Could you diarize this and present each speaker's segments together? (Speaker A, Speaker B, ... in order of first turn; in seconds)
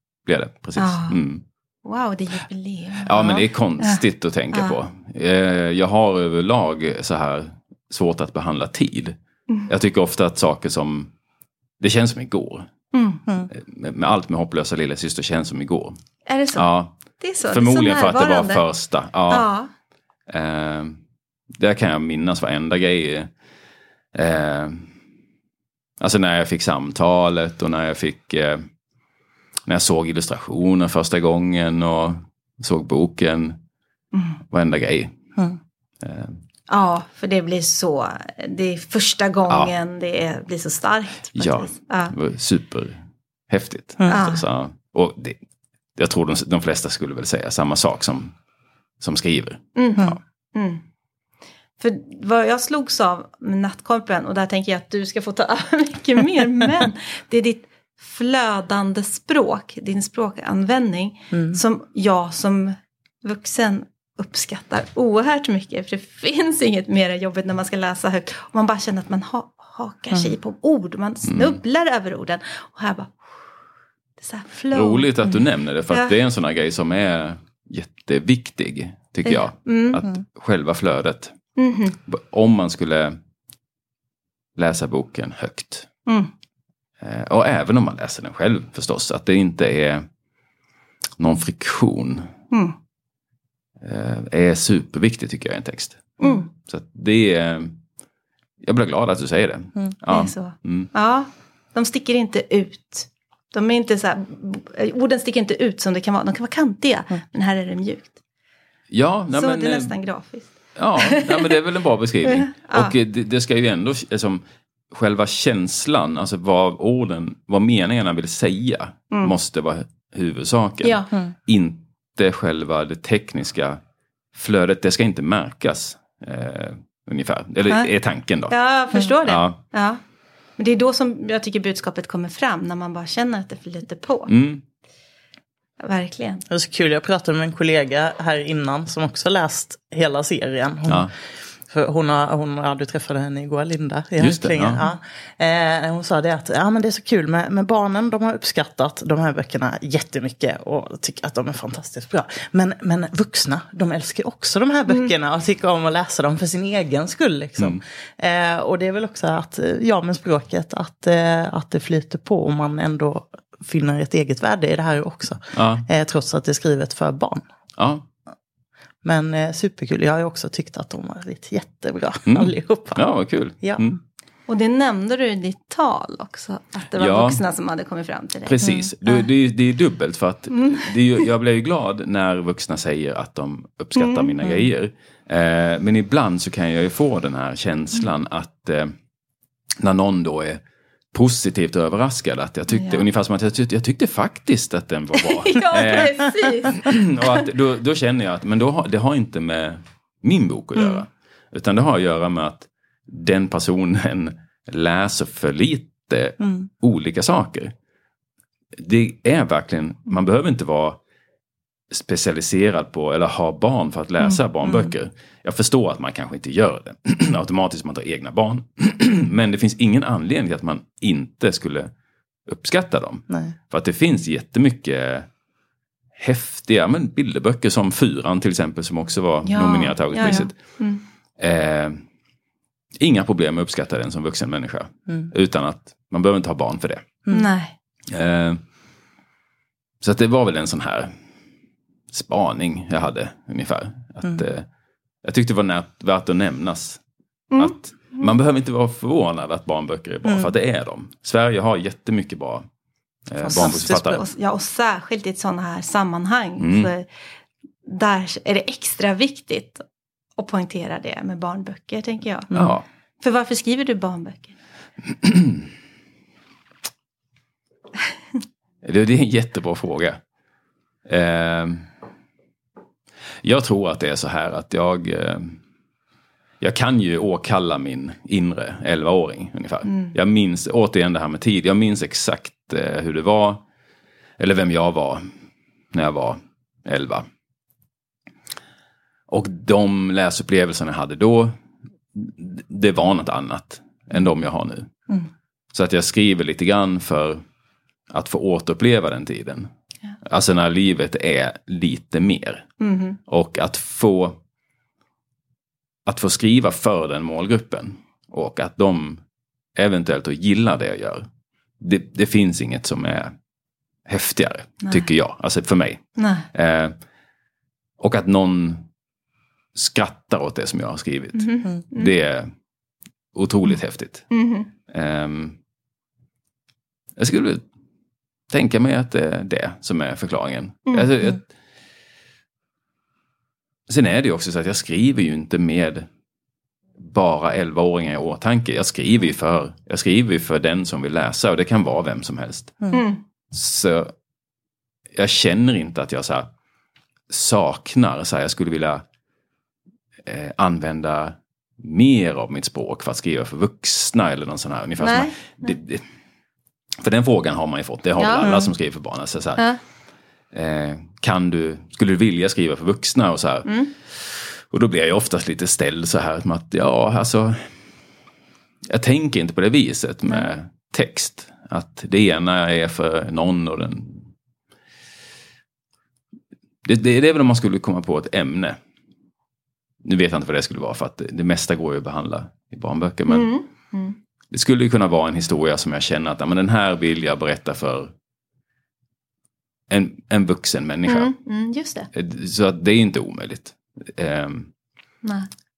Speaker A: 0.2-1.4, 3.0-9.2, 9.7-11.1, 11.8-12.7, 13.5-16.0, 16.5-19.5, 20.3-21.0, 21.6-23.3, 24.1-24.9, 26.0-28.6, 29.7-33.6, 34.5-35.1, 36.0-36.4, 41.3-45.4, 46.0-48.3, 49.0-50.2, 71.2-71.6, 74.7-81.3, 82.0-83.2, 84.6-85.9, 87.0-90.0, 91.2-92.3, 93.8-97.8, 98.6-100.9, 108.9-109.9, 110.8-123.8, 124.3-128.5, 129.2-129.6, 134.3-134.6, 144.2-144.8, 165.5-165.8, 167.8-168.0, 172.3-174.0, 176.9-177.4, 178.4-188.9, 189.8-190.6, 191.1-207.7, 208.8-211.0, 211.9-221.9, 222.4-225.3, 226.2-230.5, 231.4-232.0, 233.0-237.2, 238.1-238.6, 240.0-241.1, 242.1-244.7, 245.2-247.0, 247.6-252.7, 253.3-254.2, 256.6-256.9, 262.5-262.8, 265.1-265.7, 268.8-270.2, 271.1-271.9, 273.4-275.6, 276.6-283.6, 284.4-285.2, 285.9-287.2, 289.3-291.6, 292.1-294.9, 295.7-297.4, 298.1-299.7, 300.2-302.7, 303.3-304.4, 306.1-309.2, 309.8-311.3, 311.8-313.3, 314.1-316.9, 318.0-318.9, 319.7-322.5, 323.3-324.3, 324.9-325.6, 327.2-327.6, 328.5-331.4, 333.9-336.1, 337.0-342.9, 343.5-344.1, 345.1-346.5, 347.3-349.0, 350.2-356.0, 357.0-359.6, 360.5-367.7, 368.9-374.3, 376.8-378.8, 380.0-383.5, 384.5-388.1, 389.9-391.3, 392.1-394.7
Speaker B: 0.8-1.2, 1.8-4.0, 12.9-13.2, 16.2-16.7, 17.2-18.6, 19.3-19.7, 34.1-34.4, 36.7-42.1, 44.1-44.4, 49.8-50.8, 51.8-73.3, 74.2-75.1, 79.2-80.0, 81.6-82.0, 96.2-96.5, 100.1-108.2, 109.3-111.5, 112.2-112.9, 120.8-121.1, 128.5-130.0, 130.6-134.3, 135.8-136.4, 174.5-178.6, 180.5-180.8, 183.9-184.3, 192.7-193.0, 195.2-196.9, 229.4-231.0, 237.3-237.7, 247.5-248.2, 253.6-257.1, 257.8-259.8, 260.4-262.5, 263.2-264.5, 302.8-303.2, 316.2-316.4, 321.3-322.1, 324.3-324.7, 342.9-343.2, 355.0-355.6, 358.2-358.7, 383.3-384.2, 391.1-392.1
Speaker C: 61.3-61.6, 136.5-141.1, 141.7-167.4, 169.0-173.1, 178.6-178.9, 253.4-254.2